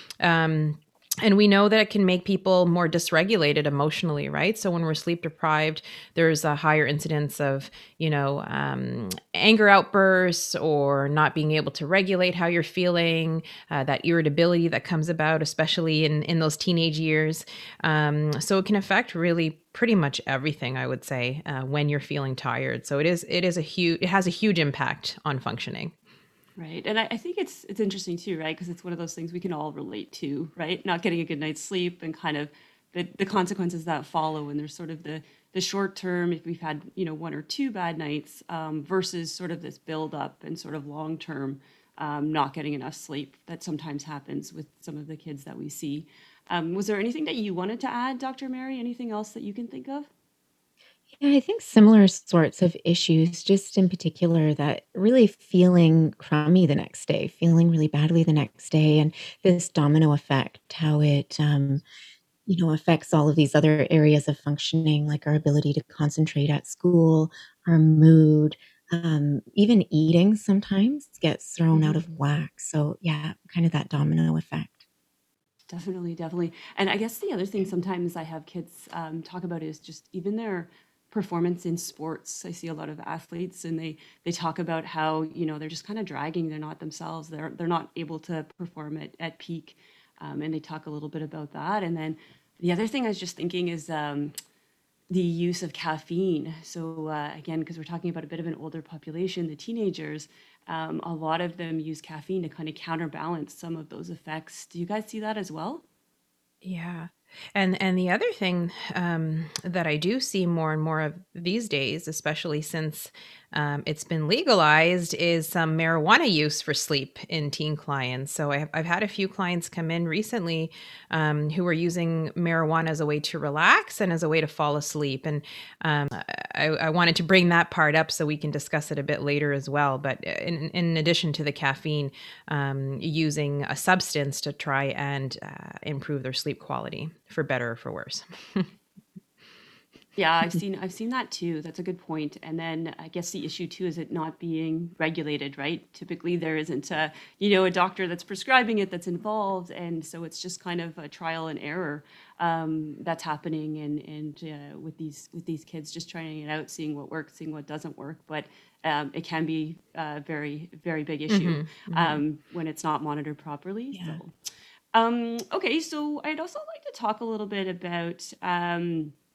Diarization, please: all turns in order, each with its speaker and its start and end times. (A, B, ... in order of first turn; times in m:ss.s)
0:00.2-0:25.9 A
0:26.6-0:50.1 B
0:51.2-1:01.8 C
1:02.5-1:14.8 C
1:11.7-1:12.0 B
1:15.7-1:34.3 B
1:35.1-1:45.8 B
1:46.6-2:18.7 A
2:20.2-2:44.3 B
2:41.3-2:42.2 A
2:44.9-2:49.1 B